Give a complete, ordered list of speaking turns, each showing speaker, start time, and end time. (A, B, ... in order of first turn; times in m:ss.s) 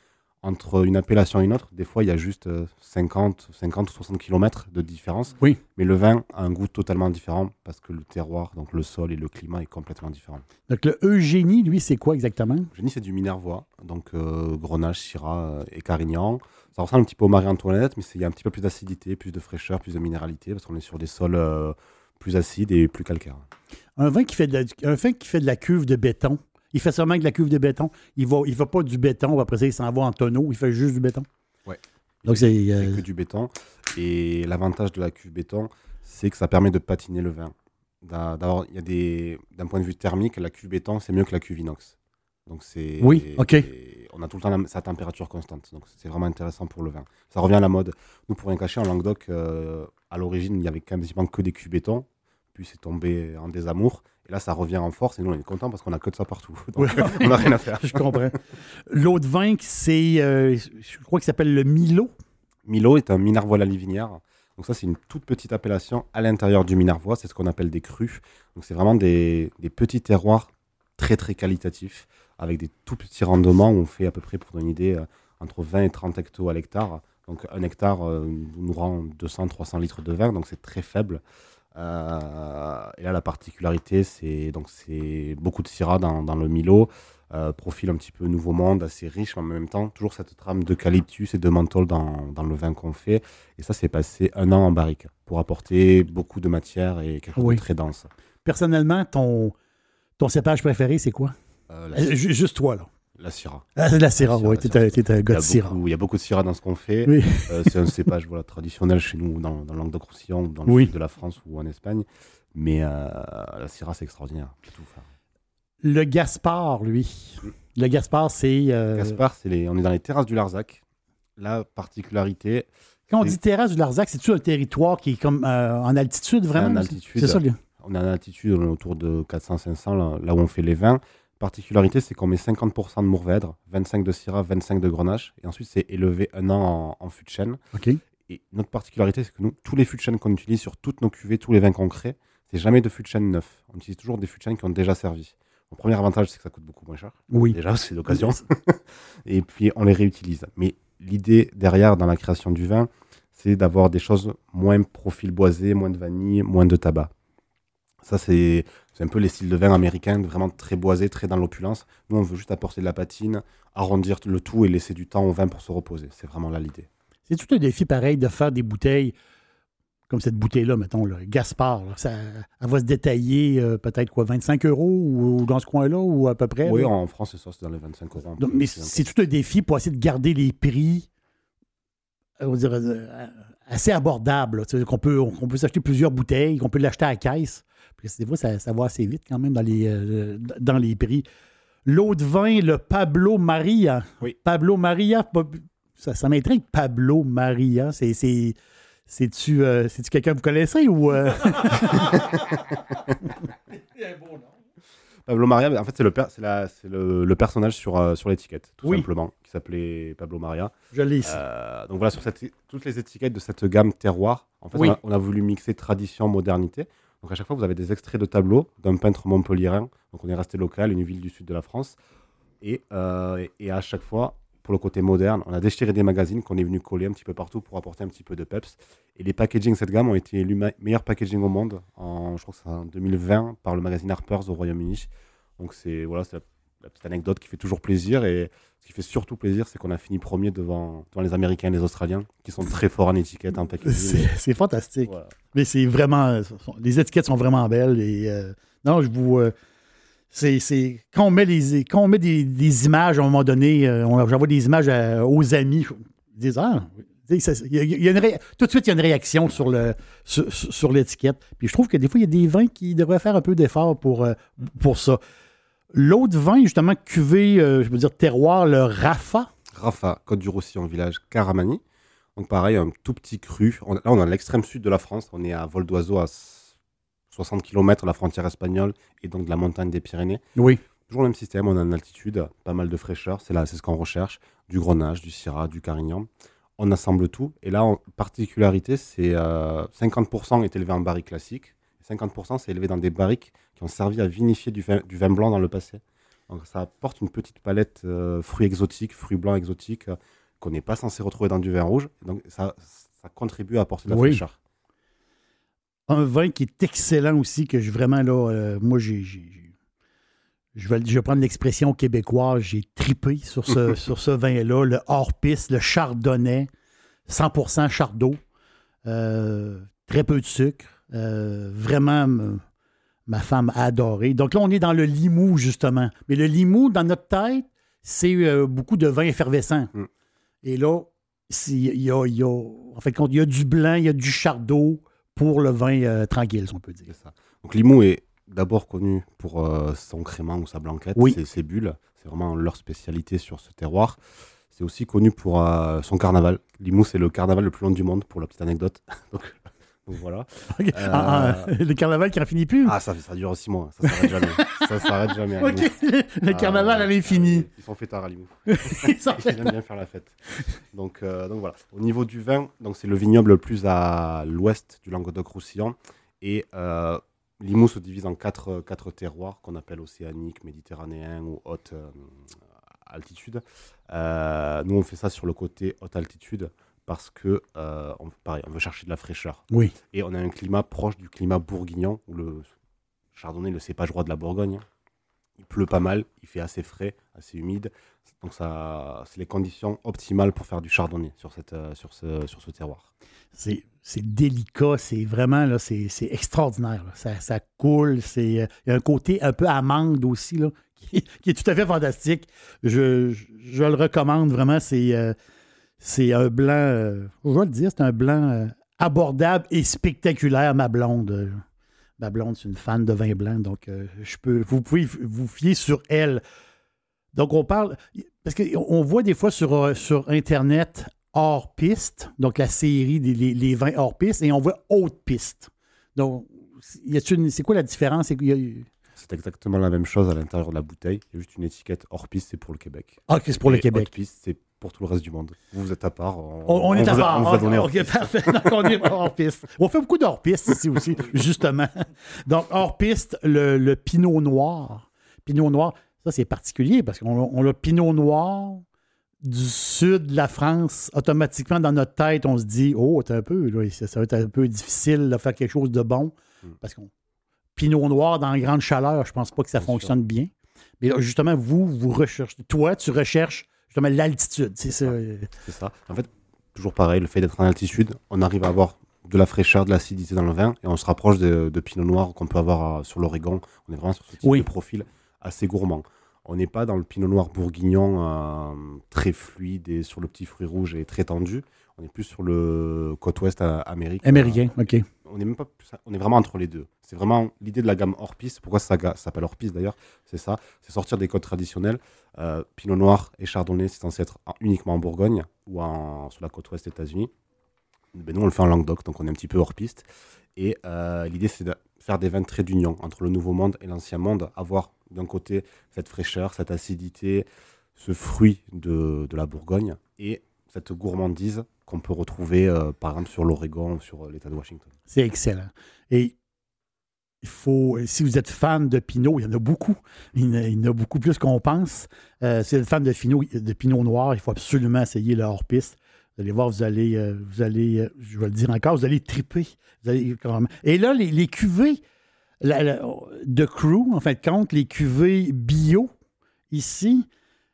0:00.4-0:10.4 A
0:10.7-0:12.7 B
0:12.7-0:23.4 A
0:24.0-0:31.3 B
0:31.6-0:58.3 A
0:32.2-0:33.0 B
0:43.0-0:43.7 B
0:56.8-1:02.1 B
1:02.6-1:21.2 A
1:21.7-1:38.1 A
1:37.4-1:37.6 B
1:38.4-1:39.5 B
1:40.2-1:41.3 B
1:41.7-1:42.1 A
1:41.9-1:42.9 B
1:43.2-1:55.1 A
1:43.8-1:45.8 B
1:47.0-1:47.9 B
1:50.6-1:50.9 B
1:55.8-1:59.2 B
1:58.9-2:00.8 A
2:01.4-2:02.7 A
2:03.1-2:07.6 B
2:06.5-2:17.6 A
2:17.7-2:18.0 B
2:18.3-2:37.1 A
2:27.3-2:27.6 B
2:38.0-2:46.9 A
2:47.3-2:49.1 B
2:50.1-2:56.9 B
2:56.6-2:59.1 A
2:58.4-3:01.1 B
3:02.4-3:11.2 B
3:11.8-3:18.5 B
3:19.1-3:22.7 B
3:21.9-3:22.4 A
3:25.2-3:42.0 A
3:30.9-3:31.4 B
3:42.6-4:04.3 A
4:03.8-4:09.5 B
4:05.0-4:05.3 A
4:10.3-4:25.2 B
4:25.9-4:29.5 B
4:29.7-4:31.8 A
4:32.4-4:36.7 A
4:37.3-4:40.4 A
4:40.6-4:40.8 B
4:41.1-5:04.6 A
5:04.1-5:04.4 B
5:06.1-5:09.7 B
5:10.7-5:16.7 B
5:17.3-5:18.4 B
5:19.0-5:22.6 B
5:23.3-5:29.9 B
5:30.6-5:37.1 B
5:37.1-5:44.2 A
5:44.7-5:51.7 A
5:50.7-5:53.0 B
5:52.8-5:55.9 A
5:54.0-5:57.7 B
5:56.5-6:00.4 A
5:58.7-5:59.7 B
6:00.9-6:22.7 A
6:23.3-6:24.8 A
6:25.6-6:33.1 A
6:33.5-6:45.3 B
6:46.0-6:51.6 B
6:52.2-6:56.4 B
6:57.3-7:08.9 B
7:09.2-7:19.1 A
7:13.3-7:14.1 B
7:16.6-7:28.8 B
7:29.4-7:37.1 B
7:37.8-7:40.5 B
7:39.8-7:40.1 A
7:41.0-7:45.5 B
7:45.6-8:04.6 A
8:04.2-8:05.1 B
8:05.2-8:17.3 A
8:18.1-8:34.9 A
8:35.1-8:36.3 B
8:37.4-8:52.0 B
8:52.6-8:56.1 B
8:56.7-8:57.2 B